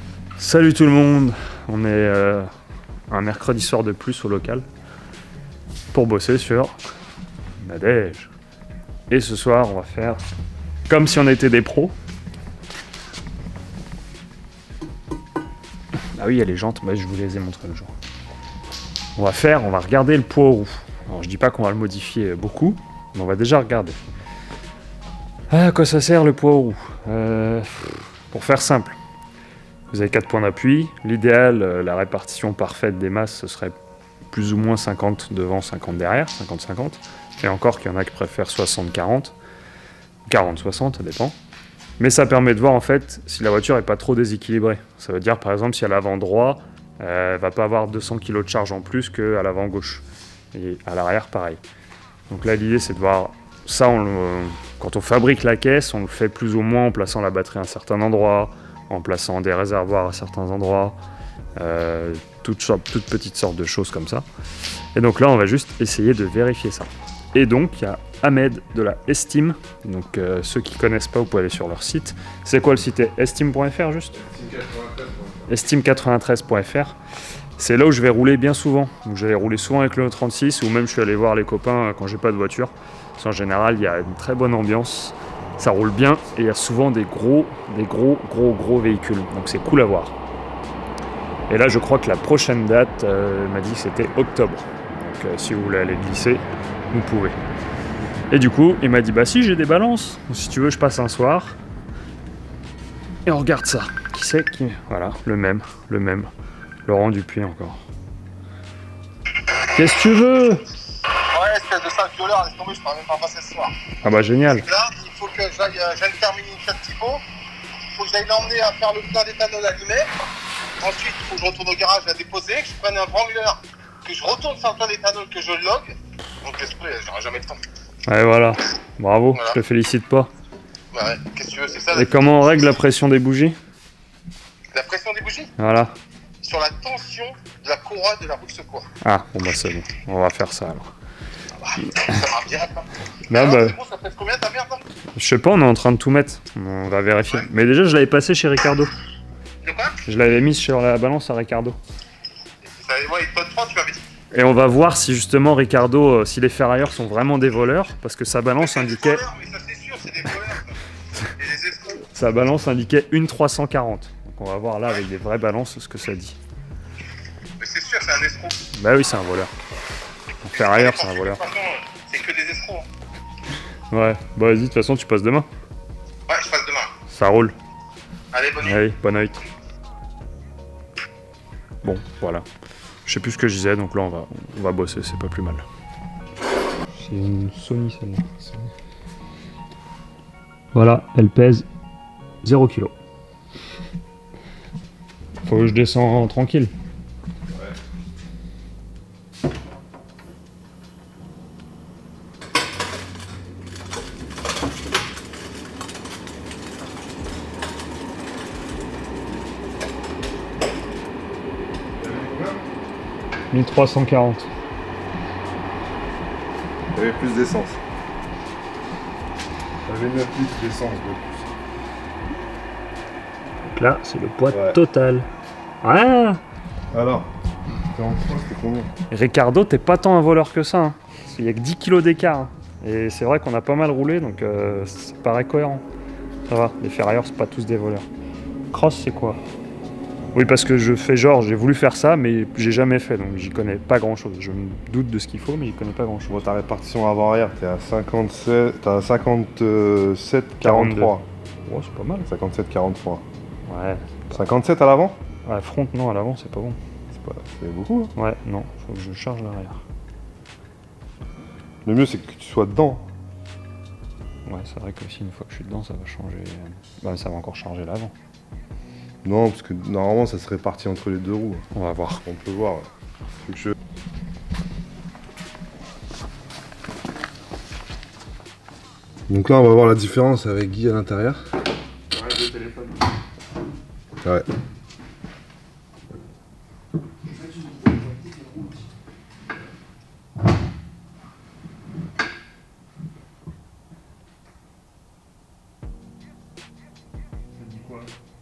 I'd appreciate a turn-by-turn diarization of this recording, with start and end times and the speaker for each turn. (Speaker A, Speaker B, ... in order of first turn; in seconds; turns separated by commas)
Speaker A: 0.4-2.5, Speaker A: 3.1-4.7, Speaker A: 5.9-6.8, Speaker A: 7.6-8.3, Speaker A: 9.1-10.2, Speaker A: 10.9-11.9, Speaker A: 16.1-17.9, Speaker A: 19.1-24.0, Speaker A: 25.5-29.0, Speaker A: 29.9-33.8, Speaker A: 34.3-39.3, Speaker A: 40.3-41.4, Speaker A: 42.0-51.6, Speaker A: 52.3-61.0, Speaker A: 61.5-64.2, Speaker A: 64.9-74.2, Speaker B: 74.1-75.5, Speaker A: 75.5-77.0, Speaker A: 77.6-90.1, Speaker A: 91.5-97.4, Speaker A: 98.3-101.6, Speaker A: 103.2-106.3, Speaker A: 106.8-107.8, Speaker A: 109.7-110.6, Speaker C: 111.3-113.7, Speaker A: 114.0-114.7, Speaker C: 114.5-117.2, Speaker C: 117.8-120.1, Speaker C: 120.8-127.6, Speaker A: 128.1-130.3, Speaker C: 130.9-132.8, Speaker A: 131.9-133.6, Speaker C: 134.7-135.5, Speaker A: 135.6-135.9, Speaker C: 136.4-138.9, Speaker A: 139.0-140.9, Speaker C: 141.6-144.8, Speaker A: 143.3-143.8, Speaker A: 145.2-148.9, Speaker C: 149.6-150.0, Speaker A: 150.0-151.8, Speaker C: 152.6-154.0, Speaker A: 154.3-159.2, Speaker C: 158.6-160.8, Speaker C: 161.4-162.0, Speaker A: 162.1-166.4, Speaker C: 167.6-168.6, Speaker A: 168.7-169.5, Speaker A: 170.4-171.4, Speaker C: 170.5-172.9, Speaker A: 173.9-175.5, Speaker C: 176.3-176.9, Speaker A: 177.1-177.5, Speaker C: 178.3-178.8, Speaker A: 178.6-179.4, Speaker A: 181.8-182.4, Speaker A: 183.1-185.6, Speaker A: 186.9-188.4, Speaker A: 190.7-191.7, Speaker A: 192.4-192.9, Speaker A: 195.4-196.7, Speaker B: 197.5-197.8, Speaker B: 212.0-212.6, Speaker A: 213.5-214.5, Speaker B: 216.9-217.8, Speaker B: 219.8-221.5, Speaker A: 223.7-225.3, Speaker B: 224.5-224.8, Speaker A: 225.8-226.4, Speaker B: 226.9-227.3, Speaker B: 227.9-228.9, Speaker A: 229.1-235.8, Speaker A: 236.5-238.1, Speaker A: 238.7-239.4, Speaker A: 240.3-246.5, Speaker B: 246.3-251.2, Speaker A: 250.6-252.3, Speaker B: 252.3-253.2, Speaker A: 253.7-254.4, Speaker B: 254.3-255.2, Speaker A: 255.4-256.8, Speaker B: 257.1-258.1, Speaker A: 258.1-259.8, Speaker B: 261.8-263.1, Speaker A: 264.4-268.1, Speaker B: 269.2-271.6, Speaker A: 271.7-272.2, Speaker B: 272.2-272.9, Speaker B: 273.4-273.7, Speaker B: 279.3-281.4, Speaker A: 282.1-283.0, Speaker A: 297.6-298.1